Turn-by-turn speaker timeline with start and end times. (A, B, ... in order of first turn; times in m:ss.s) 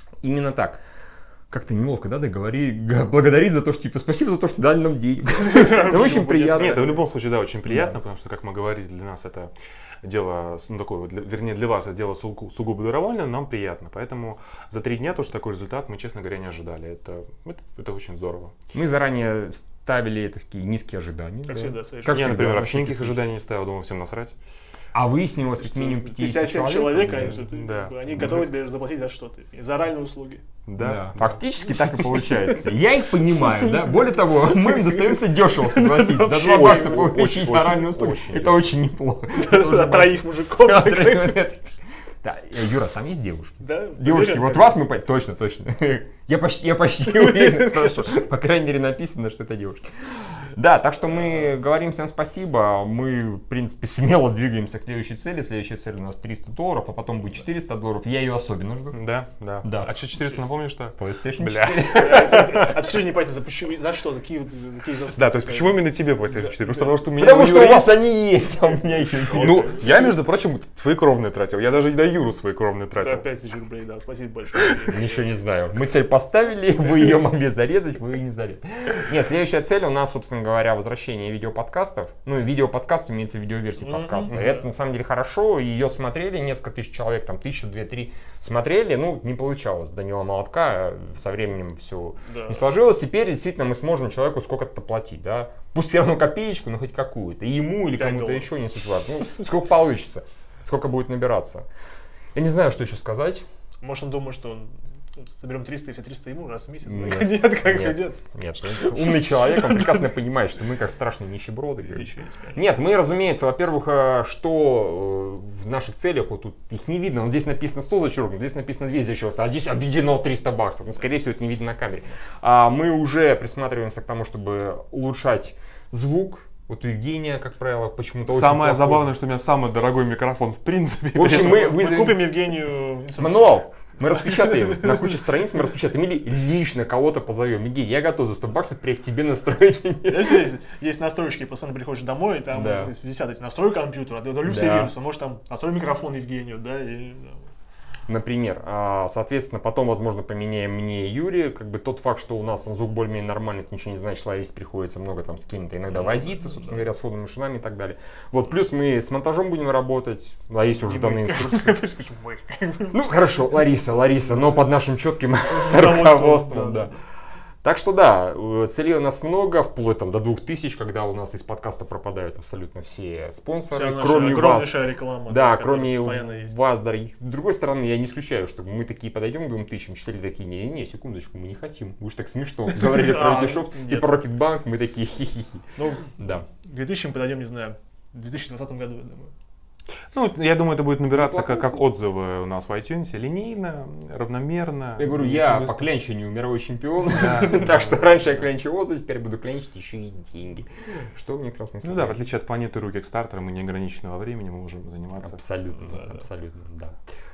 0:00.2-0:00.8 A
0:01.5-0:07.0 A
0:05.3-0:07.0 B
0:06.6-0:09.5 C
0:07.7-0:08.0 A
0:10.0-0:18.6 C
0:18.7-0:23.2 A
0:21.5-0:22.3 B
0:22.1-0:24.4 C
0:24.9-0:27.4 A
0:25.6-0:30.5 B
0:27.4-0:28.5 C
0:30.7-0:31.4 C
0:30.8-0:59.0 A
0:34.7-0:37.1 B
0:36.3-0:38.7 C
0:39.3-0:41.5 B
0:43.6-0:44.8 B
0:58.9-1:02.3 C
0:59.6-0:59.9 A
1:01.0-1:02.8 A
1:01.8-1:05.9 B
1:05.1-1:08.0 C
1:06.7-1:07.0 B
1:07.2-1:09.8 A
1:09.3-1:10.0 B
1:09.3-1:13.2 C
1:13.0-1:15.2 B
1:14.9-1:41.7 A
1:23.8-1:24.6 B
1:32.3-1:32.7 B
1:37.9-1:38.5 B
1:42.4-1:43.4 A
1:43.8-1:50.0 B
1:46.9-2:09.1 A
1:51.9-1:52.8 B
2:08.3-2:11.7 C
2:11.2-2:12.3 A
2:11.2-2:15.2 B
2:13.2-2:20.5 A
2:20.0-2:27.4 B
2:22.5-2:22.9 A
2:24.5-2:24.9 A
2:28.1-2:41.8 A
2:36.0-2:36.9 B
2:40.8-2:43.0 B
2:42.9-2:46.9 A
2:45.5-2:47.0 B
2:47.6-3:06.5 A
2:53.7-2:56.6 B
3:02.7-3:04.2 B
3:05.8-3:09.3 B
3:10.1-3:15.9 C
3:11.1-3:11.8 A
3:15.0-3:22.2 A
3:17.2-3:18.0 C
3:21.8-3:25.4 C
3:25.2-3:27.0 A